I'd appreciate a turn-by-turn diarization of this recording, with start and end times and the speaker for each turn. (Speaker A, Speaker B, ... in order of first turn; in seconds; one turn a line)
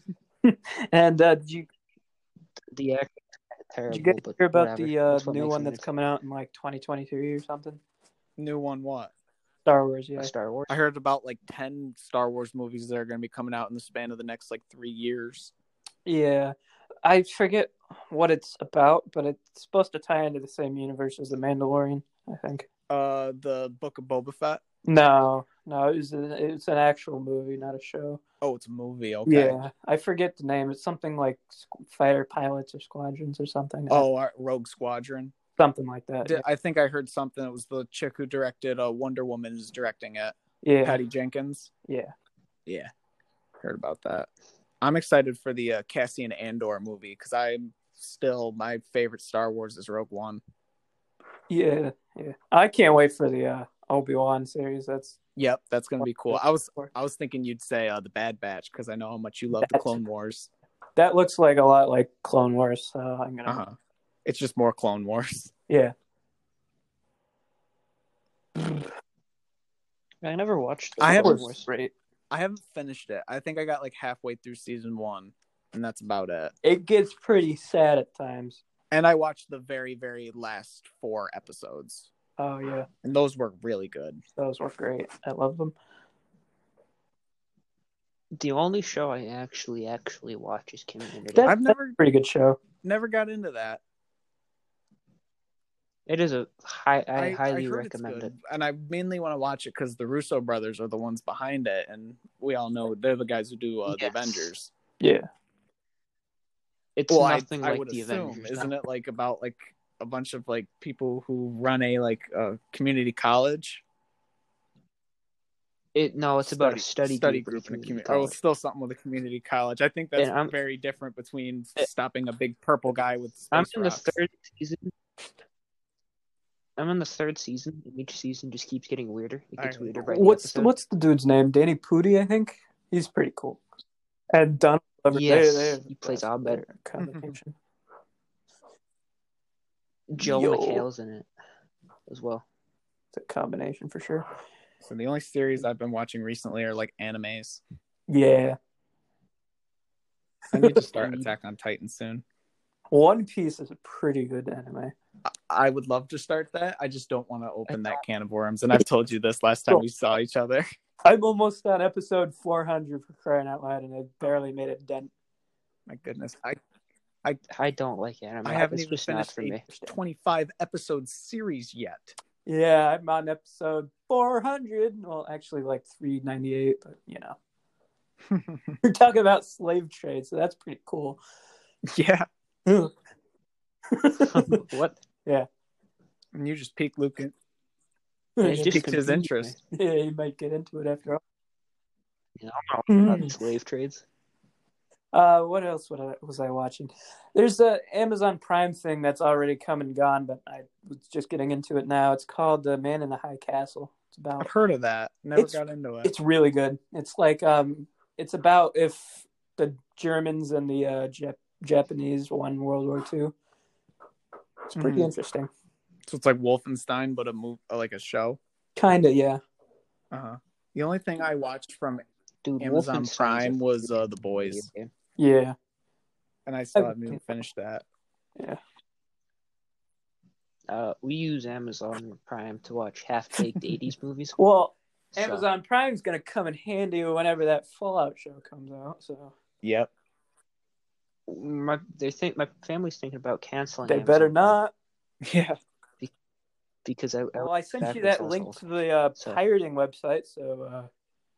Speaker A: 0.4-1.7
Speaker B: 2.7-5.9
Speaker A: 3.9-7.8
Speaker C: 8.4-9.1
Speaker A: 9.6-10.3
Speaker B: 10.2-10.8
Speaker C: 10.7-15.5
Speaker A: 16.1-22.7
Speaker C: 22.9-24.6
Speaker A: 24.8-28.2
Speaker C: 28.4-29.6
Speaker A: 29.3-34.0
Speaker C: 33.9-35.3
Speaker A: 35.6-36.4
Speaker C: 36.2-41.7
Speaker A: 40.6-41.0
Speaker A: 41.8-42.1
Speaker C: 42.6-42.9
Speaker C: 43.6-44.3
Speaker C: 44.8-50.4
Speaker A: 51.5-55.2
Speaker C: 55.4-60.5
Speaker A: 56.0-56.9
Speaker A: 59.6-60.0
Speaker A: 61.0-63.6
Speaker C: 63.5-65.5
Speaker A: 65.7-65.9
Speaker B: 70.2-71.7
Speaker C: 71.0-71.4
Speaker A: 71.0-71.9
Speaker C: 72.3-76.5
Speaker A: 76.6-78.6
Speaker C: 78.9-82.1
Speaker A: 82.4-82.9
Speaker C: 83.0-84.2
Speaker A: 84.4-85.7
Speaker B: 88.3-91.5
Speaker A: 91.3-92.6
Speaker C: 91.4-92.0
Speaker C: 92.8-93.8
Speaker B: 96.1-98.3
Speaker C: 97.2-104.7
Speaker B: 103.9-104.5
Speaker A: 105.0-105.3
Speaker B: 107.0-108.7
Speaker C: 107.1-113.8
Speaker B: 115.9-118.3
Speaker C: 116.5-124.1
Speaker B: 120.2-120.5
Speaker B: 123.5-124.9
Speaker B: 126.8-130.7
Speaker C: 129.6-130.0
Speaker A: 130.1-133.6
Speaker A: 134.3-137.5
Speaker B: 135.1-136.6
Speaker C: 137.0-137.3
Speaker B: 140.1-141.3
Speaker A: 140.2-140.8
Speaker B: 142.1-142.4
Speaker A: 143.1-144.2
Speaker C: 144.8-147.6
Speaker A: 148.1-148.6
Speaker C: 150.5-152.2
Speaker B: 150.9-151.3
Speaker A: 152.9-154.9
Speaker C: 155.2-160.7
Speaker B: 157.7-158.0
Speaker A: 161.0-165.1
Speaker C: 165.9-166.6
Speaker B: 167.5-169.6
Speaker C: 168.4-172.2
Speaker A: 169.7-170.0
Speaker A: 172.4-177.3
Speaker C: 178.3-178.8
Speaker A: 178.8-181.2
Speaker C: 181.9-182.3
Speaker A: 182.7-182.9
Speaker A: 183.9-184.6
Speaker B: 184.2-185.0
Speaker C: 186.3-187.3
Speaker A: 188.4-188.9
Speaker B: 188.4-189.6
Speaker C: 188.5-189.5
Speaker A: 189.7-191.2
Speaker B: 192.4-194.0
Speaker A: 192.9-193.3
Speaker A: 195.1-204.5
Speaker C: 204.4-206.1
Speaker A: 205.4-213.3
Speaker A: 214.7-215.5
Speaker C: 214.7-215.1
Speaker C: 216.1-218.4
Speaker A: 218.7-219.4
Speaker C: 220.1-222.0
Speaker B: 222.4-224.9
Speaker C: 222.6-224.7
Speaker A: 225.2-225.5
Speaker C: 226.4-227.8
Speaker A: 226.7-227.2
Speaker B: 230.7-234.4
Speaker A: 234.4-239.3
Speaker B: 235.1-235.4
Speaker C: 239.6-239.9
Speaker B: 241.3-244.6
Speaker A: 243.8-244.7
Speaker C: 245.2-245.6
Speaker B: 246.8-248.6
Speaker A: 247.3-250.9